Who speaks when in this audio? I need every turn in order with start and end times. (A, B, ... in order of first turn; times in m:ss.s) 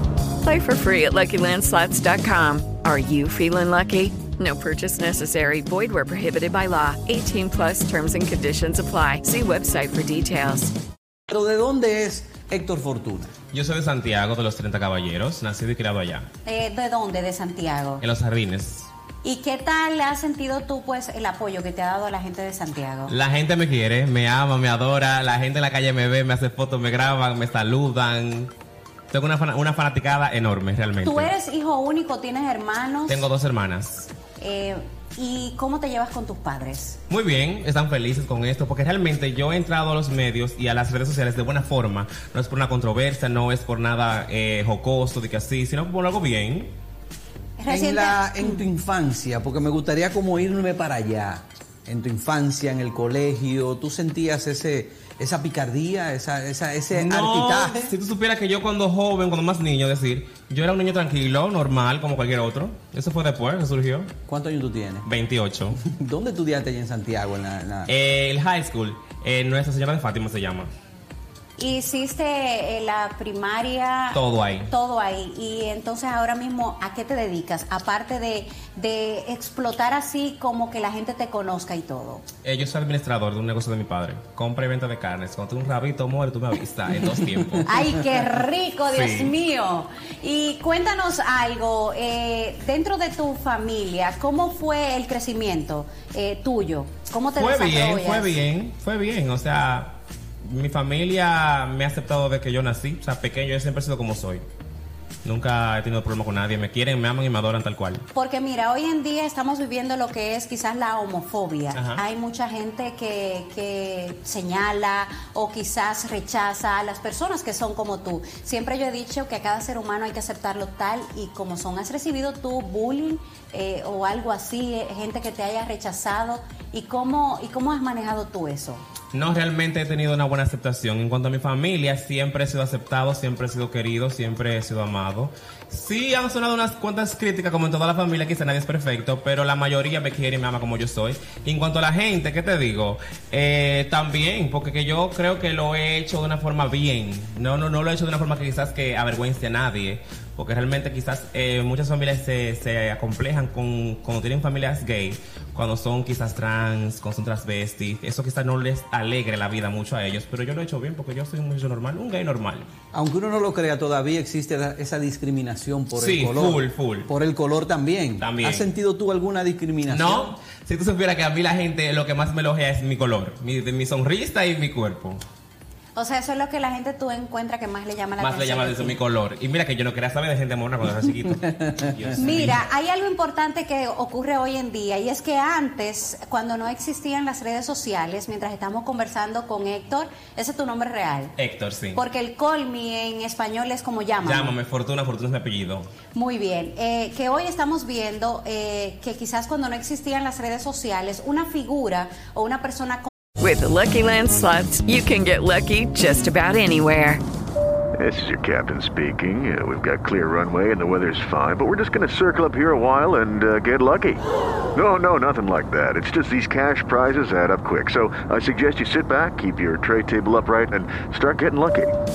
0:00.4-0:10.7 A
0:11.3-0:13.3 B
0:13.5-0:16.3 C
0:16.4-0:18.0 D
0:18.0-0:18.9 C
0:19.2-0:23.1 D
0:23.1-0:28.5 C
0:29.1-0:31.3 C
0:31.0-0:33.2 D
0:33.1-0:34.1 C
0:34.4-0:37.0 D
0:37.1-0:46.7 C
0:47.6-0:48.6 D
0:47.7-0:57.9 B
0:56.9-1:04.1 C
1:04.3-1:05.1 B
1:05.0-1:05.8 C
1:05.7-1:07.9 B
1:07.9-1:10.7 C
1:11.6-1:22.2 D
1:14.1-1:14.7 C
1:22.4-1:27.7 C
1:27.6-1:38.4 D
1:28.9-1:29.3 C
1:37.3-1:44.4 C
1:45.2-1:48.0 C
1:48.1-2:08.8 D
1:51.7-1:52.0 C
2:09.1-2:42.7 C
2:42.9-2:50.3 B
2:45.9-2:47.1 C
2:48.2-2:48.6 C
2:49.9-2:55.2 C
2:56.0-2:59.0 D
2:58.2-3:02.6 C
3:02.2-3:11.3 D
3:11.4-3:12.0 C
3:11.9-3:14.5 D
3:14.2-3:15.9 C
3:16.1-3:23.1 D
3:23.4-3:27.2 A
3:28.0-3:34.2 E
3:34.7-3:41.9 E